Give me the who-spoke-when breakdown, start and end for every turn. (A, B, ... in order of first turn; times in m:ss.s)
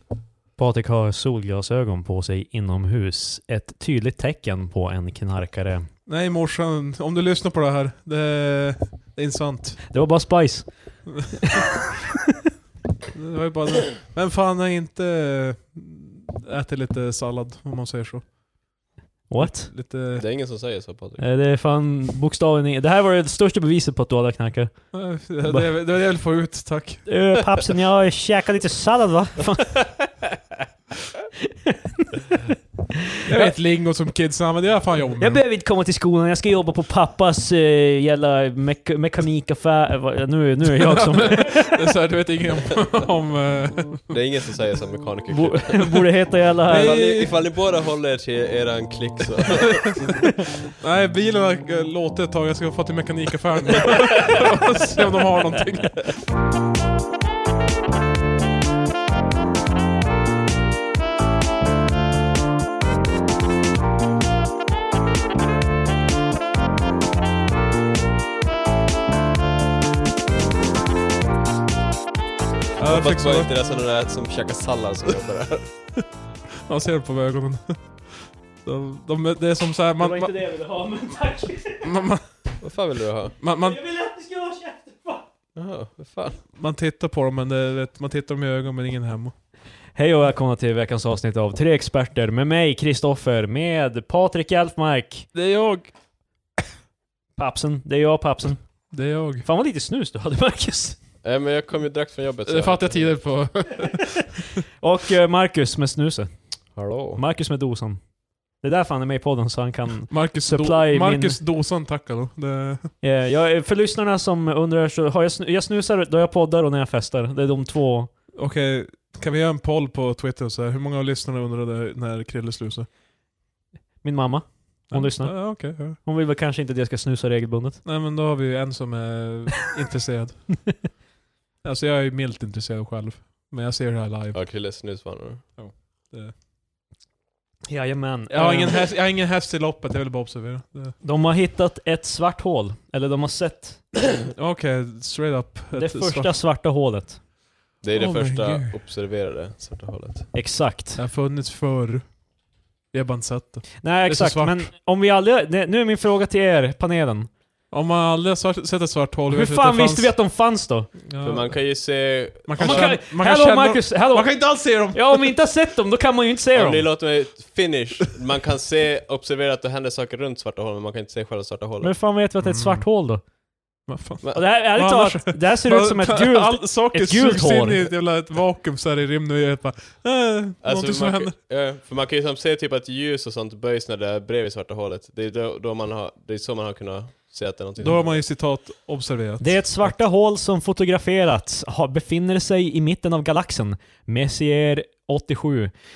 0:00.6-0:05.9 A
0:06.1-0:09.9 B
0:09.9-0:11.6 A
0:13.1-0:18.4 B
0:19.3-0:19.7 A
0:19.4-0:20.2 B
0:20.2-0:21.2 C
0:21.2-0:25.7 A
0:24.9-0:27.1 B
0:27.0-0:30.1 A
0:31.6-0:32.4 A
0:33.2-0:33.5 A
0:33.2-0:35.4 B
0:35.2-0:41.8 A
0:40.8-0:44.2 B
0:44.1-0:46.0 C
0:45.3-0:47.0 A
0:46.6-0:50.3 C
0:46.7-0:47.4 B
0:49.6-0:49.9 B
0:50.8-0:56.2 B
0:54.0-0:54.4 C
1:12.8-1:13.5 B
1:12.8-1:15.7 C
1:16.6-1:20.3 B
1:20.0-1:21.9 A
1:21.8-1:22.2 B
1:22.6-1:23.4 C
1:23.4-1:23.8 B
1:23.5-1:25.2 A
1:25.5-1:26.4 C
1:26.5-1:29.3 B
1:29.9-1:35.3 A
1:35.3-1:35.9 B
1:37.4-1:41.0 A
1:38.9-1:39.4 B
1:41.2-1:43.5 C
1:42.4-1:44.5 B
1:44.8-1:51.4 A
1:46.7-1:47.2 C
1:50.1-1:52.9 B
1:53.0-1:58.1 A
1:58.3-2:02.9 B
2:04.0-2:07.8 A
2:04.9-2:06.0 B
2:07.8-2:10.9 B
2:11.6-2:14.5 B
2:14.3-2:15.4 C
2:15.6-2:16.3 B
2:17.7-2:18.8 A
2:18.3-2:21.0 B
2:21.0-2:23.9 A
2:24.3-2:26.4 B
2:25.7-2:27.2 A
2:27.8-2:30.3 C
2:27.9-2:28.7 B
2:30.3-2:31.0 A
2:30.9-2:32.3 B
2:32.9-2:34.7 B
2:33.8-2:37.3 A
2:37.7-2:40.2 B
2:39.3-2:40.9 A
2:41.0-2:45.4 B
2:41.2-2:43.0 C
2:42.6-2:46.9 A
2:46.5-2:51.9 C
2:51.8-2:53.2 A
2:52.4-2:52.8 B
2:53.9-3:01.3 B
2:54.3-2:57.9 A
3:00.6-3:08.2 C
3:07.8-3:09.9 B
3:09.4-3:15.7 A